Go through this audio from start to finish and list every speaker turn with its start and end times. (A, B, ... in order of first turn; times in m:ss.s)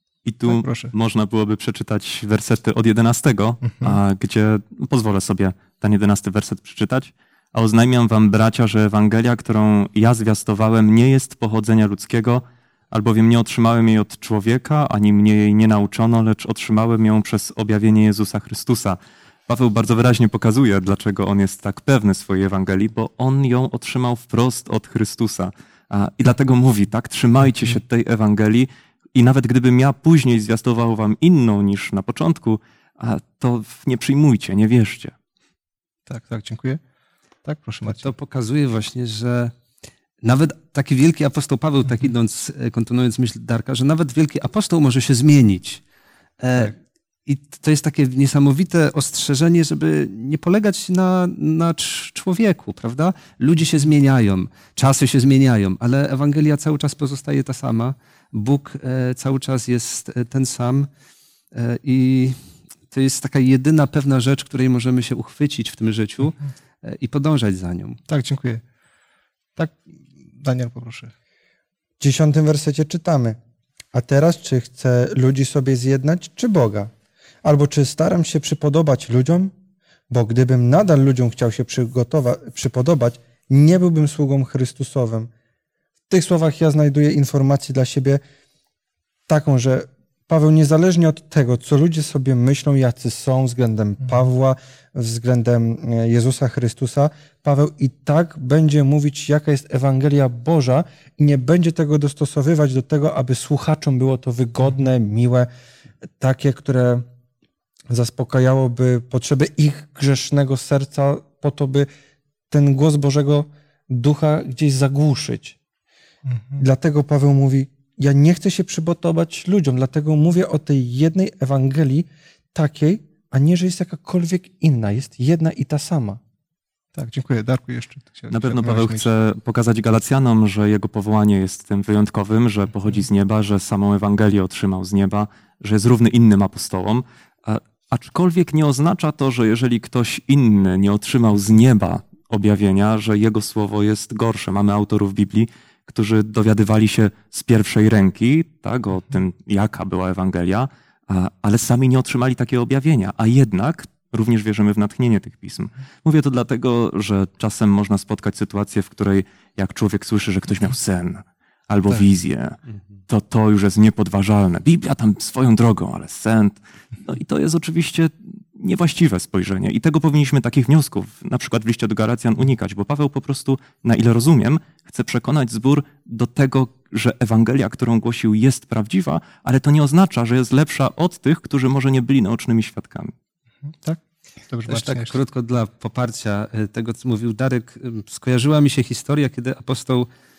0:00.2-0:35.1 A
0:00.5-0:00.9 B
0:03.6-0:04.0 B
0:36.1-0:36.8 B
0:37.4-0:38.1 B
0:37.9-0:39.5 C
0:40.2-0:45.8 C
0:46.4-0:46.7 C
0:47.3-1:00.9 C
1:01.5-1:02.4 C
1:02.9-1:08.0 C
1:08.1-1:08.6 B
1:09.6-1:09.8 B
1:10.4-1:11.1 B
1:12.0-1:13.4 D
1:13.9-1:16.9 D
1:17.4-1:19.5 D
1:20.1-1:25.3 D
1:26.1-1:28.2 D
1:29.3-1:45.5 D
1:46.2-1:47.1 D
1:47.9-1:51.9 D
1:52.5-1:55.6 D
1:56.3-1:56.6 B
1:56.6-2:06.2 D
2:07.0-2:09.1 B
2:08.3-3:03.1 A
3:03.8-3:05.2 B
3:04.7-3:10.1 C